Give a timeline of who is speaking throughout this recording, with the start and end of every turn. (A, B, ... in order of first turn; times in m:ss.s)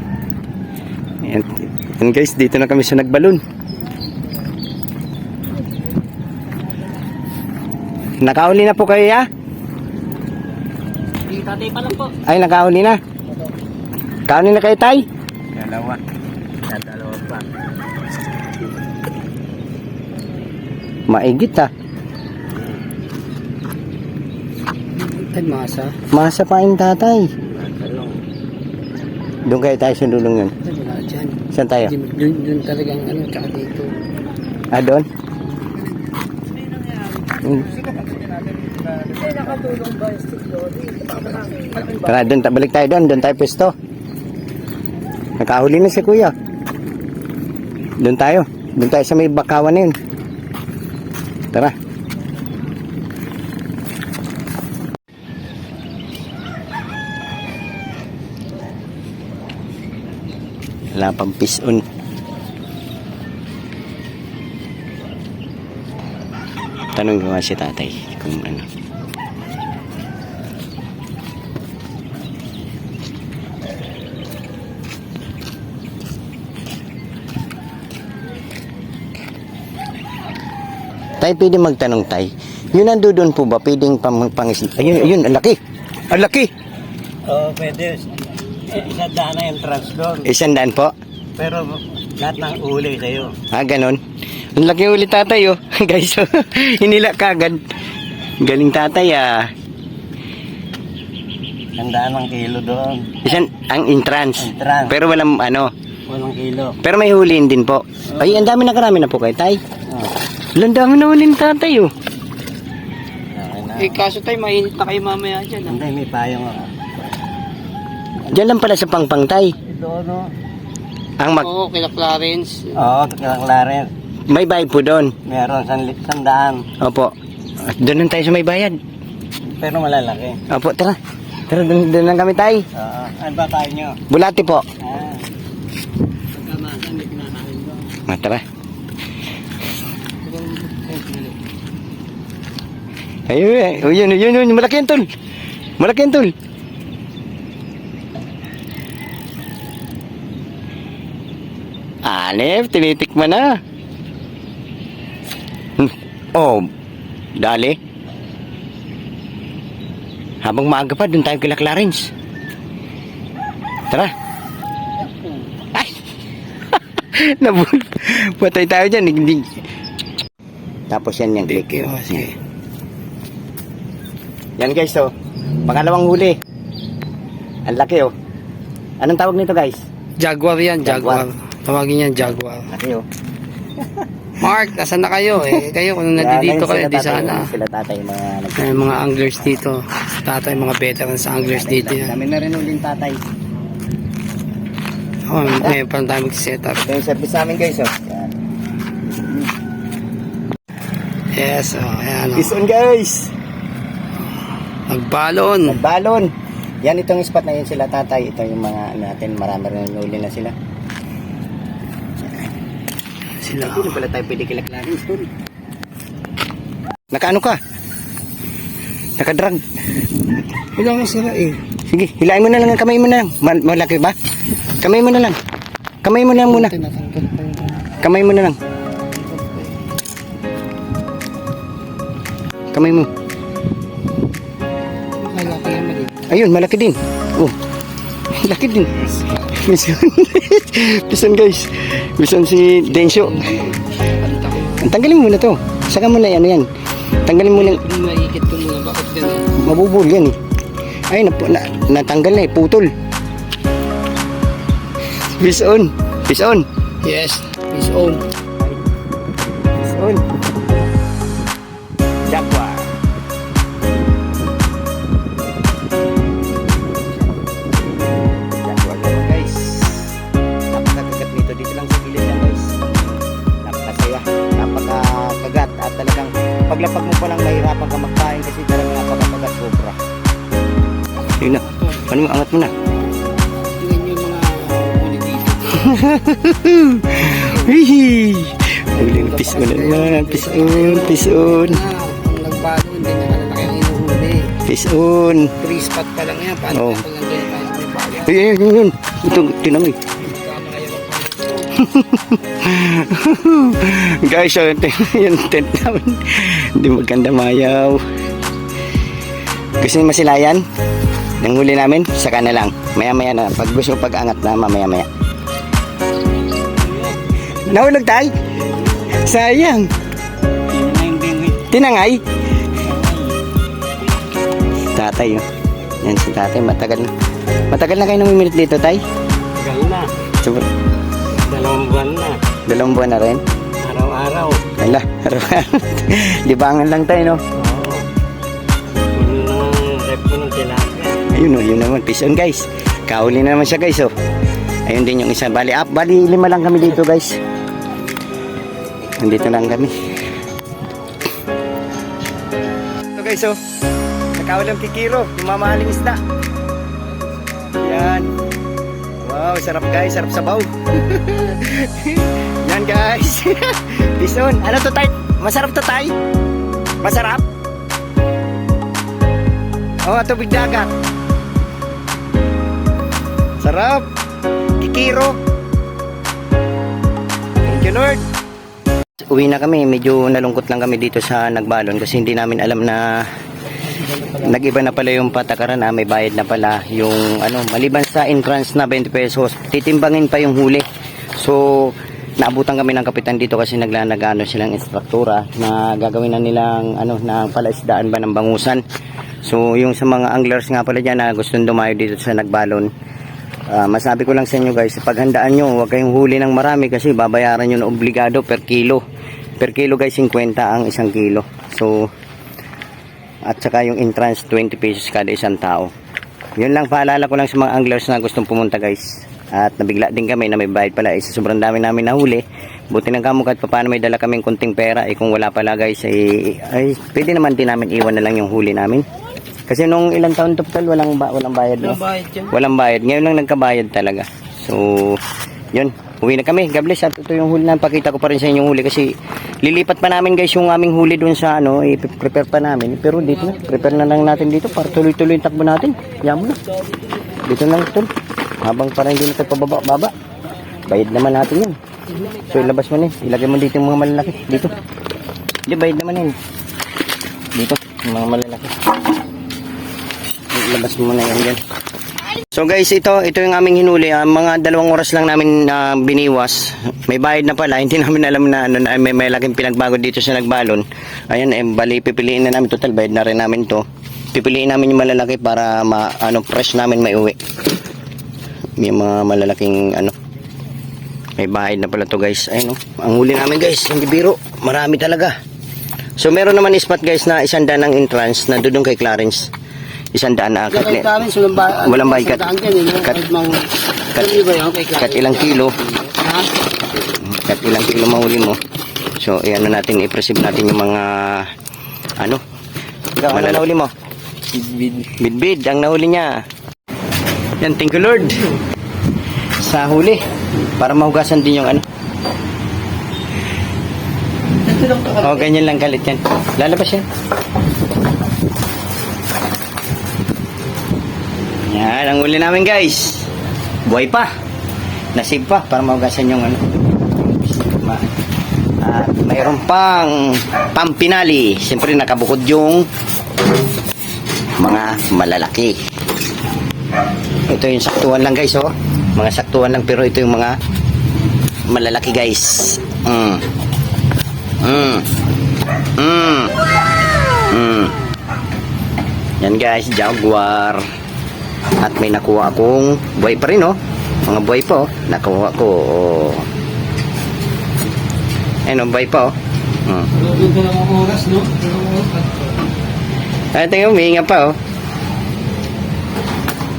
0:01.2-0:03.4 A
0:08.2-0:09.2 A
0:11.2-0:12.2 B
0:12.1-0:13.0 A
0:14.3-0:15.0 A
0:15.6-0:16.0 B
0:16.7-0:17.4 B
0:21.1-0:21.7 A
0:25.0-0:26.0 C
0:26.1-0:27.3 A
0:27.5-0:28.2 B
0:29.4-0:30.5 A
0:30.6-0:33.9 C
0:31.5-0:32.0 A
0:34.7-0:35.0 A
0:37.4-0:37.8 A
0:39.0-0:42.0 C
0:41.9-0:43.7 A
0:45.4-0:46.3 A
0:48.0-0:50.0 A
1:00.9-1:01.8 A
1:06.9-1:08.7 A
1:21.2-1:25.6 A
1:26.1-1:26.5 A
1:27.2-1:30.3 B
1:30.2-1:30.9 A
1:31.4-1:33.4 B
1:33.5-1:34.0 A
1:34.5-1:37.6 A
1:38.4-1:39.5 A
1:41.8-1:43.2 B
1:43.2-1:45.7 A
1:44.4-1:44.9 B
1:46.1-1:46.8 B
1:46.8-1:49.6 A
1:50.5-1:51.9 A
1:53.3-1:54.0 B
1:53.8-1:55.8 C
1:55.6-1:56.7 B
1:58.3-1:59.6 A
1:59.6-2:00.3 B
2:01.2-2:01.5 A
2:01.4-2:02.8 C
2:02.7-2:03.9 B
2:04.3-2:05.2 A
2:05.2-2:06.7 B
2:06.8-2:08.8 A
2:09.5-2:10.4 B
2:10.5-2:12.6 A
2:12.7-2:14.0 B
2:14.1-2:14.6 A
2:14.8-2:15.3 B
2:16.3-2:17.9 B
2:18.0-2:18.4 A
2:20.6-2:21.3 B
2:23.3-2:25.1 A
2:25.8-2:26.3 A
2:32.0-2:33.6 A
2:35.8-2:36.7 A
2:37.4-2:37.8 A
2:40.4-2:42.1 A
2:47.0-2:49.5 A
2:50.9-2:52.4 A
2:51.5-2:52.3 C
2:54.6-2:55.1 A
2:55.6-2:56.4 A
2:57.6-2:58.1 A
2:59.0-2:59.8 A
3:00.2-3:02.7 C
3:00.8-3:01.3 A
3:02.7-3:03.0 A
3:04.4-3:07.5 C
3:06.1-3:09.6 A
3:08.6-3:12.2 C
3:11.4-3:13.2 A
3:15.3-3:16.8 C
3:15.4-3:15.8 A
3:16.7-3:18.3 A
3:19.1-3:19.5 A
3:21.3-3:22.6 C
3:22.3-3:23.3 A
3:24.9-3:25.8 C
3:25.6-3:26.3 A
3:26.8-3:30.5 A
3:33.4-3:34.0 C
3:33.5-3:35.3 A
3:37.1-3:37.6 A
3:39.2-3:39.6 A
3:40.8-3:41.6 C
3:41.9-3:44.2 A
3:44.8-3:45.4 A
3:46.0-3:46.8 A
3:46.5-3:47.9 C
3:48.0-3:48.6 A
3:49.2-3:49.7 C
3:52.7-3:53.1 A
3:55.1-3:56.1 C
3:56.3-3:57.6 A
3:58.4-4:03.7 A
4:02.9-4:04.9 C
4:04.7-4:06.7 A
4:07.2-4:07.8 A
4:07.5-4:09.5 C
4:09.5-4:10.4 A
4:11.1-4:12.9 A
4:15.3-4:16.6 A
4:17.0-4:18.2 C
4:19.8-4:20.2 A
4:22.3-4:22.9 A
4:28.4-4:30.2 A
4:30.7-4:40.0 A
4:41.4-4:42.7 A
4:43.8-4:46.0 C
4:45.7-4:51.8 A
4:47.3-4:47.8 C
4:48.9-4:54.6 C
4:54.6-4:55.5 A
4:55.6-4:58.4 C
4:56.7-4:57.0 A
4:58.1-5:00.0 A
5:00.2-5:01.7 C
5:01.7-5:08.0 A
5:09.8-5:10.6 A
5:11.4-5:15.1 A
5:17.5-5:18.3 A
5:19.0-5:19.9 A
5:20.7-5:21.7 B
5:21.6-5:22.2 A
5:22.8-5:23.4 B
5:24.9-5:25.4 A
5:26.0-5:27.1 A
5:27.7-5:29.0 A
5:29.6-5:30.1 B
5:30.4-5:30.6 A
5:31.4-5:32.4 B
5:32.6-5:33.4 A
5:33.8-5:34.7 B
5:34.8-5:37.4 A
5:37.6-5:38.1 B
5:39.1-5:41.2 B
5:41.3-5:44.1 A
5:44.9-5:47.4 A
5:49.2-5:49.9 A
5:53.1-5:53.6 A
5:54.4-5:56.2 A
5:57.7-5:58.3 A
5:59.2-6:06.1 A
6:07.0-6:07.4 A
6:10.0-6:10.9 A
6:13.6-6:14.0 A
6:14.8-6:15.4 A
6:17.6-6:18.2 A
6:19.3-6:23.3 A
6:24.2-6:30.8 A
6:31.4-6:38.8 A
6:39.4-6:42.9 A
6:43.7-6:49.0 A
6:49.6-6:52.1 A
6:53.5-6:55.9 A
6:56.6-7:09.0 A
7:09.7-7:15.2 A
7:11.9-7:12.5 C
7:15.7-7:26.6 A
7:27.3-7:28.1 A
7:28.6-7:30.1 A
7:30.8-7:34.7 A
7:35.6-7:36.4 A
7:37.5-7:38.7 A
7:40.5-7:41.6 A
7:42.5-7:57.4 A
7:58.8-8:00.1 A
8:01.4-8:05.3 A
8:06.2-8:09.5 A
8:10.1-8:13.3 A
8:10.7-8:16.5 C
8:14.1-8:15.8 A
8:17.0-8:18.6 A
8:19.2-8:21.5 A
8:23.2-8:23.9 A
8:25.0-8:26.4 A
8:27.6-8:28.5 A
8:29.6-8:30.2 A
8:30.8-8:31.8 A
8:34.8-8:37.0 A
8:41.7-8:43.3 A
8:43.8-8:44.3 A
8:45.1-8:46.6 A
8:47.8-8:48.1 A
8:48.8-8:52.9 A
8:54.6-8:55.8 A
8:57.5-9:00.6 A
9:01.7-9:03.4 A
9:04.6-9:05.1 A
9:06.0-9:06.5 A
9:07.5-9:08.0 A
9:09.4-9:10.8 A
9:11.8-9:16.5 A
9:18.6-9:20.2 A
9:20.2-9:22.3 C
9:23.5-9:24.6 A